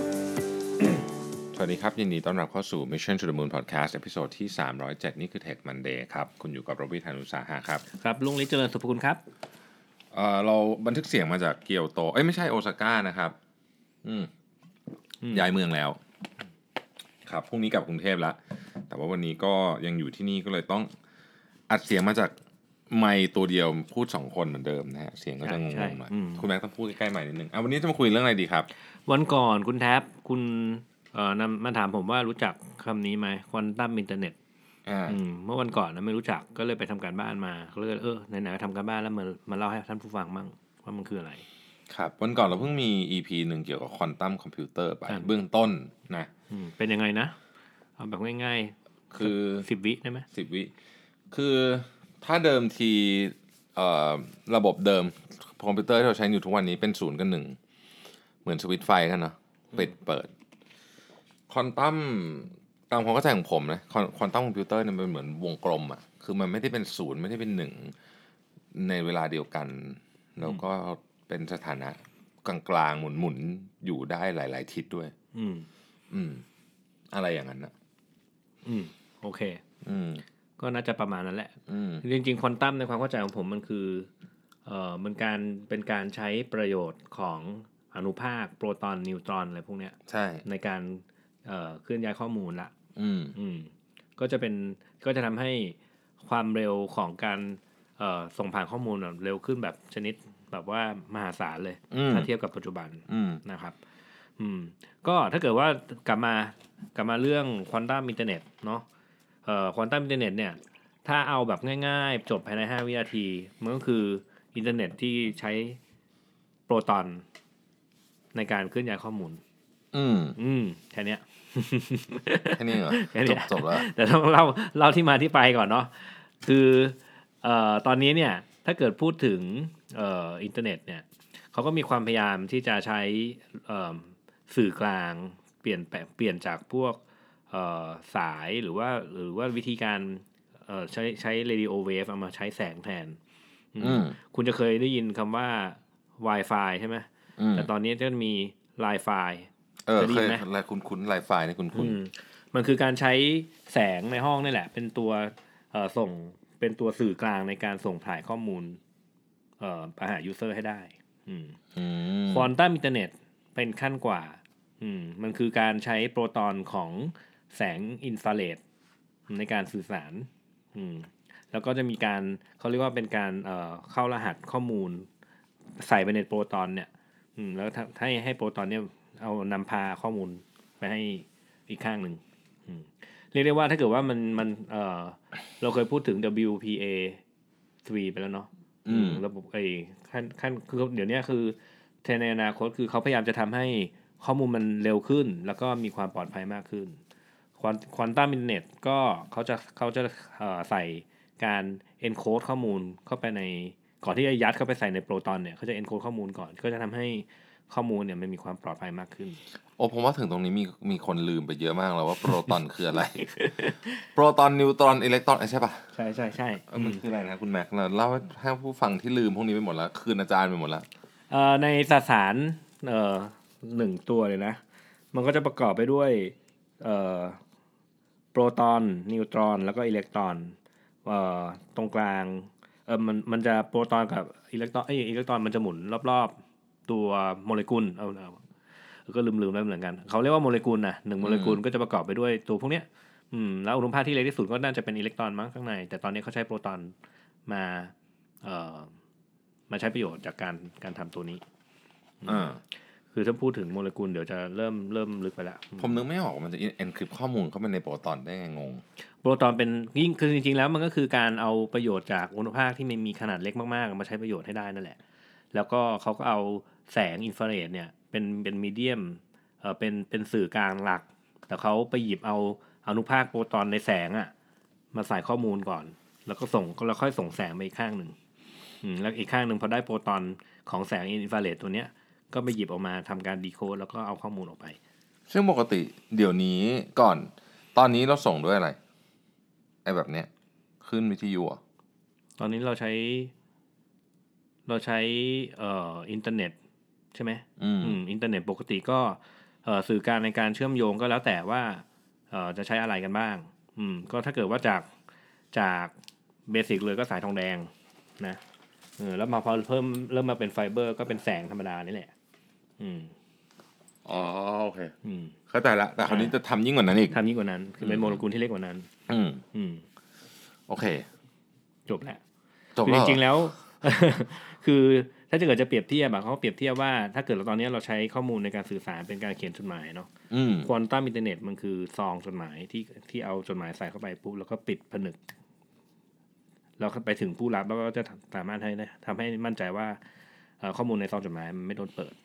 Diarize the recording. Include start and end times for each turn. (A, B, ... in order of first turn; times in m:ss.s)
0:00.8-0:07.8 A
0:07.9-0:09.2 B
0:10.1-0:13.3 A
0:14.0-0:14.3 A
0:15.2-0:15.5 B
0:15.3-0:16.0 A
0:17.2-0:20.9 A
0:21.7-0:22.3 A
0:22.9-0:28.7 A
0:25.4-0:26.4 B
0:29.0-0:34.4 B
0:34.8-0:35.2 A
0:35.1-0:41.4 B
0:41.9-0:46.3 A
0:45.1-0:45.3 B
0:46.5-0:47.3 B
0:48.0-0:50.2 B
0:49.1-0:49.7 A
0:50.3-0:50.7 A
0:51.3-0:57.6 A
0:58.4-1:00.3 A
1:01.5-1:07.9 A
1:08.7-1:15.1 A
1:15.3-1:15.7 B
1:16.1-1:16.4 A
1:17.1-1:17.7 A
1:18.6-1:19.6 B
1:19.8-1:20.2 A
1:20.6-1:24.1 B
1:21.7-1:22.0 A
1:24.6-1:32.7 B
1:30.1-1:30.4 A
1:33.0-1:33.4 A
1:33.3-1:43.8 B
1:41.9-1:42.3 A
1:43.1-1:43.4 A
1:44.4-1:48.8 B
1:49.4-1:55.8 B
1:56.7-1:57.2 B
1:58.3-1:59.4 B
1:59.9-2:00.4 A
2:00.4-2:23.2 B
2:02.5-2:03.9 A
2:23.7-2:30.4 B
2:23.8-2:24.2 A
2:27.4-2:27.7 A
2:29.8-2:32.0 A
2:31.7-2:38.8 B
2:39.6-2:41.6 B
2:41.8-2:42.5 A
2:42.2-2:48.6 B
2:49.3-2:55.1 B
2:55.7-3:07.2 B
3:07.8-3:17.0 B
3:08.8-3:09.2 A
3:17.6-3:29.4 B
3:29.8-3:35.9 A
3:33.2-3:33.9 B
3:35.9-3:37.0 B
3:36.7-3:40.8 A
3:41.3-3:44.6 B
3:45.1-3:47.4 B
3:48.3-3:58.4 B
3:59.0-4:06.9 B
4:01.2-4:01.6 A
4:07.4-4:08.9 B
4:09.7-4:11.4 B
4:12.2-4:12.6 B
4:12.2-4:12.6 A
4:13.1-4:16.0 B
4:15.8-4:18.8 A
4:19.2-4:25.0 B
4:25.5-4:34.3 B
4:34.9-4:38.2 B
4:38.8-4:44.8 B
4:45.3-4:48.8 A
4:49.8-4:50.3 A
4:50.8-4:51.6 A
4:52.4-4:53.3 B
4:54.6-4:56.6 B
4:57.1-5:04.9 B
4:57.6-4:58.0 A
5:05.5-5:05.9 B
5:06.5-5:08.4 B
5:09.0-5:12.1 B
5:12.8-5:13.1 B
5:14.0-5:14.9 A
5:15.0-5:15.4 B
5:15.5-5:17.2 A
5:16.0-5:16.3 B
5:17.1-5:18.9 B
5:17.8-5:18.2 A
5:19.1-5:19.4 A
5:19.5-5:19.8 B
5:20.7-5:21.1 A
5:21.8-5:22.2 B
5:22.8-5:23.5 A
5:22.8-5:35.2 B
5:30.3-5:30.7 A
5:36.8-5:40.0 B
5:40.6-5:42.2 B